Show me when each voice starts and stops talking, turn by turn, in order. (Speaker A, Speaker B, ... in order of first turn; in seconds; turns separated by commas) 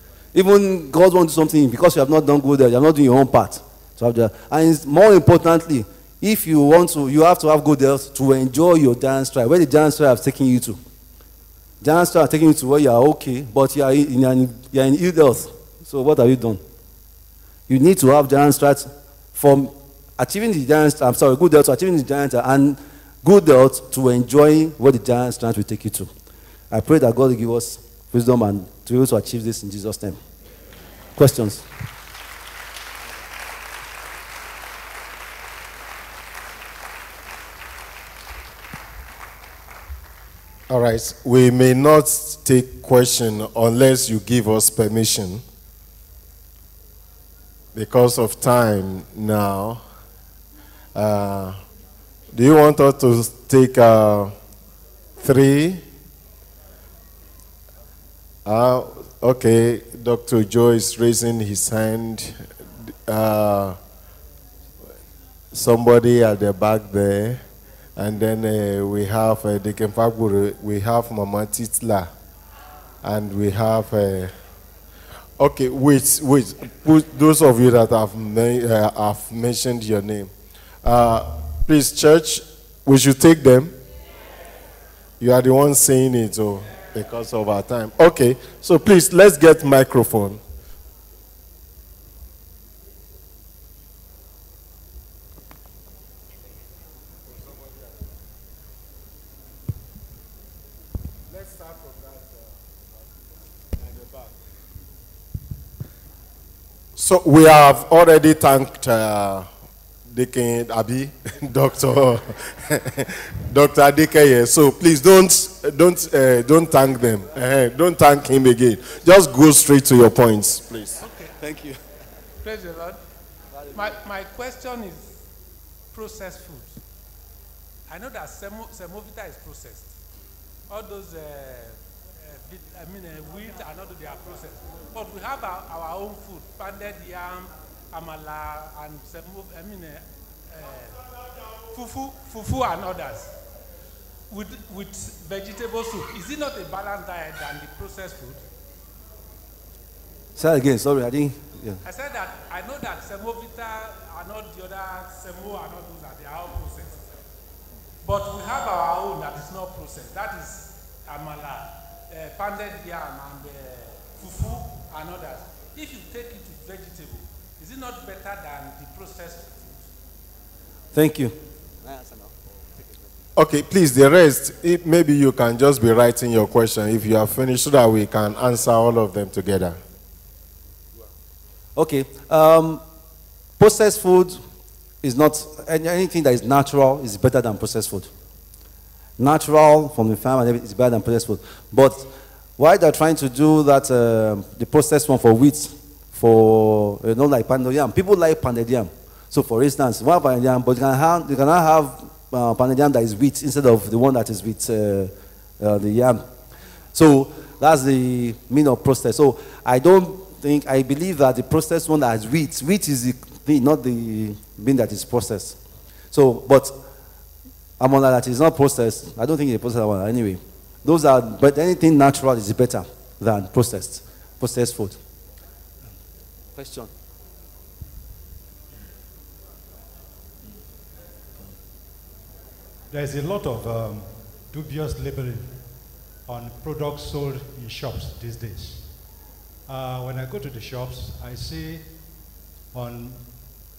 Speaker A: 0.3-10.8, Speaker A: 11.8-16.6, Speaker A: 17.7-26.1, Speaker A: 26.7-30.2, Speaker A: 31.1-31.6, Speaker B: 40.7-45.4, Speaker B: 47.7-49.8, Speaker B: 50.9-51.6, Speaker B: 52.3-54.3, Speaker B: 55.2-55.8, Speaker B: 58.4-62.4, Speaker B: 63.1-63.8, Speaker B: 65.5-67.4, Speaker B: 68.0-72.1, Speaker B: 73.0-74.3, Speaker B: 75.4-80.3, Speaker B: 80.8-83.7, Speaker B: 85.2-90.4, Speaker B: 101.3-102.6, Speaker B: 103.7-104.3, Speaker B: 107.0-109.5, Speaker B: 110.1-121.0, Speaker C: 121.0-121.3, Speaker A: 121.4-121.8, Speaker C: 122.4-123.0, Speaker C: 123.7-125.2, Speaker C: 125.9-126.8, Speaker C: 127.9-129.9, Speaker C: 130.7-141.1, Speaker C: 141.6-143.3, Speaker C: 144.3-148.4, Speaker A: 150.4-151.8, Speaker C: 151.8-157.1, Speaker C: 158.0-169.9, Speaker A: 170.9-172.9, Speaker B: 173.4-179.8, Speaker A: 181.8-182.8, Speaker A: 183.6-184.4, Speaker A: 185.0-188.1, Speaker A: 189.2-206.3, Speaker A: 206.9-215.6, Speaker A: 216.1-216.8, Speaker A: 217.8-225.0, Speaker A: 226.6-226.9, Speaker D: 232.9-235.6, Speaker D: 236.3-238.9, Speaker D: 239.7-241.9, Speaker D: 242.7-243.4